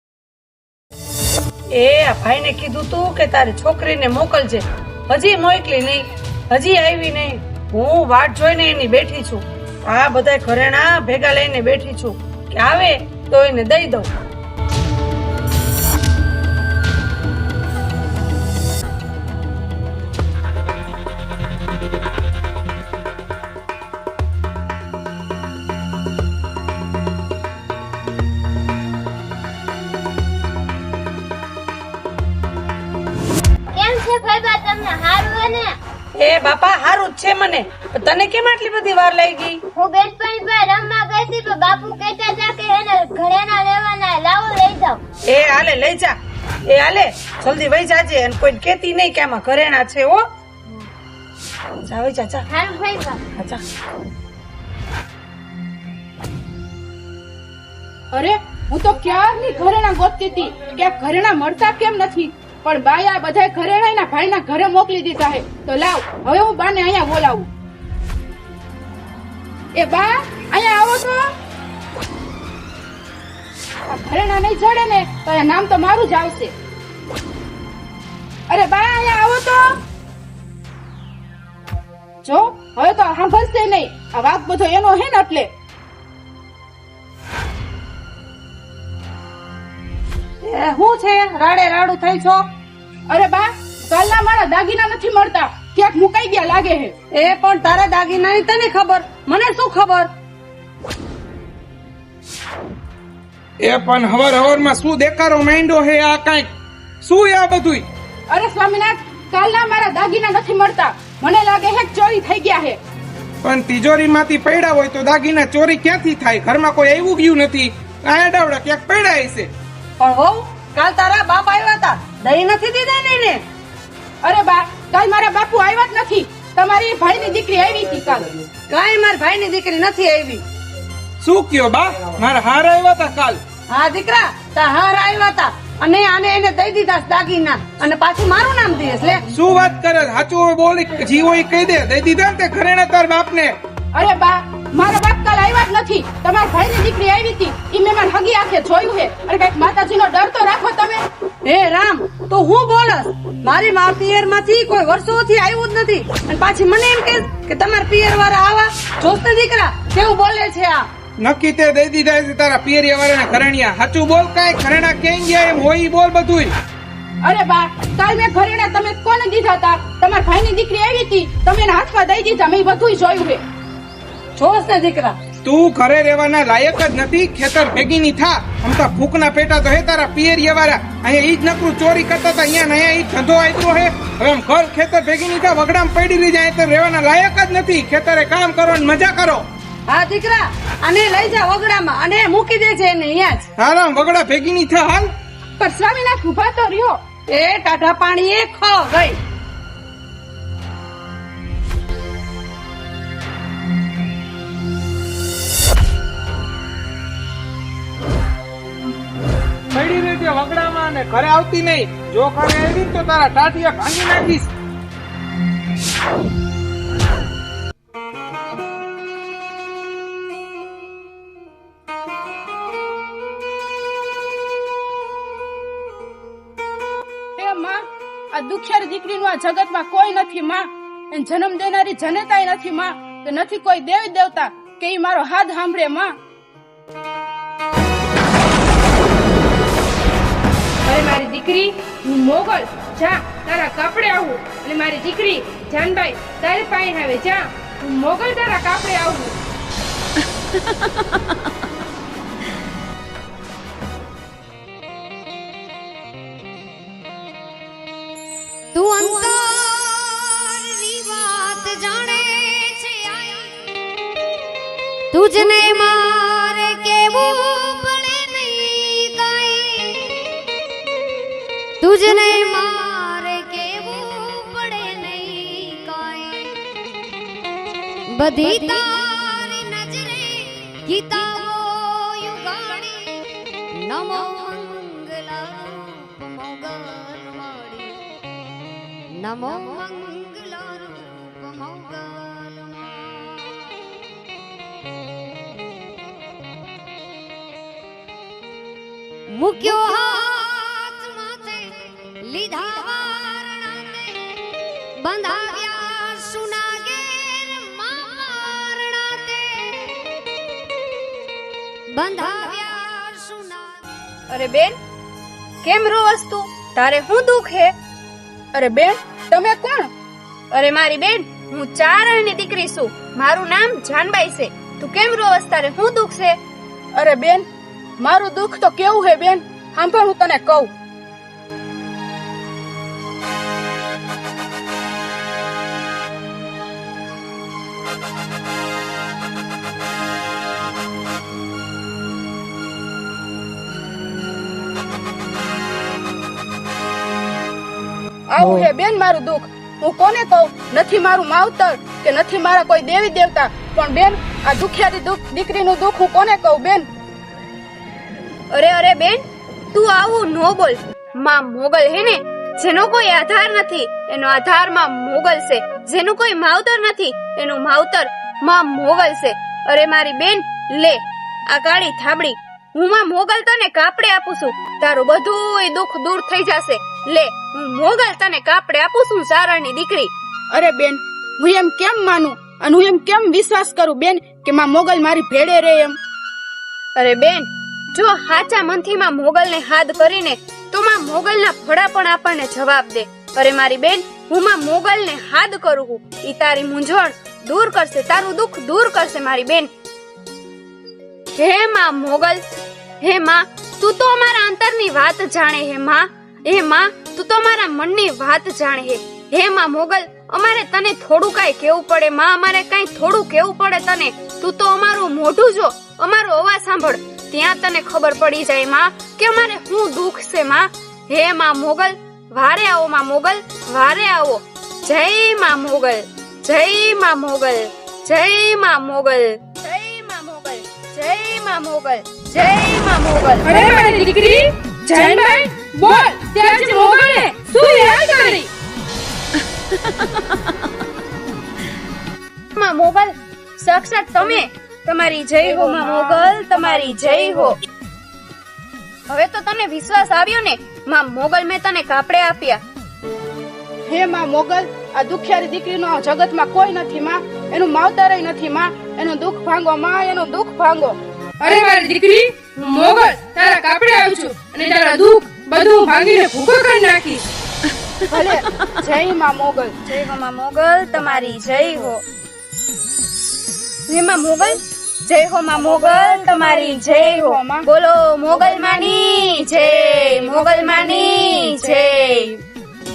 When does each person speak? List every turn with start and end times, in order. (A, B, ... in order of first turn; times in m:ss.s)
0:01.7-0:14.1 A
0:33.8-0:35.8 B
0:36.2-0:39.6 A
0:39.8-0:45.0 B
0:45.3-0:46.2 A
0:46.7-0:50.2 A
0:51.8-0:52.5 A
0:52.5-0:53.2 B
0:53.4-0:53.6 A
0:58.1-1:07.5 C
1:09.8-1:11.3 C
1:13.9-1:16.5 C
1:18.5-1:19.8 C
1:22.2-1:25.5 C
1:30.4-1:32.5 A
1:33.1-1:37.0 C
1:37.1-1:40.1 A
1:43.6-1:46.5 D
1:47.0-1:47.9 D
1:48.3-1:52.8 C
1:53.4-1:59.5 D
2:00.0-2:03.4 A
2:04.2-2:08.3 C
2:08.7-2:10.4 A
2:11.2-2:13.4 D
2:13.7-2:19.3 A
2:19.3-2:23.6 D
2:24.0-2:31.0 C
2:31.4-2:40.9 A
2:41.2-2:46.5 D
2:47.2-2:53.4 C
2:54.4-2:55.2 A
2:55.4-3:09.4 D
3:09.9-3:13.5 A
3:13.6-3:15.1 D
3:15.6-3:17.0 C
3:17.3-3:19.2 A
3:29.7-3:34.5 D
3:47.4-3:56.2 C
4:00.8-4:09.4 E
4:18.7-4:23.6 F
4:25.1-4:30.4 F
4:31.8-4:36.6 F
4:38.1-4:48.0 F
4:49.1-4:54.0 F
4:59.3-5:10.1 F
5:11.9-5:13.8 F
5:14.3-5:14.8 G
5:15.6-5:17.7 G
5:18.5-5:19.9 C
5:20.5-5:26.4 G
5:27.0-5:27.5 C
5:28.0-5:30.7 C
5:48.3-5:56.9 C
5:58.5-5:59.2 G
5:59.7-6:20.1 G
6:20.5-6:26.0 C
6:27.0-6:39.7 G
6:41.4-6:42.4 G
6:43.0-7:13.5 G
7:13.4-7:18.5 E
7:13.5-7:14.1 C
7:14.9-7:18.4 C
7:22.6-7:27.6 G
7:25.5-7:26.4 C
7:29.1-7:32.6 G
7:33.9-7:41.0 C
7:41.4-7:47.2 E
7:48.1-7:49.8 C
7:49.9-7:52.0 G
7:53.9-8:02.3 G
7:55.6-7:57.7 C
7:58.4-8:02.1 C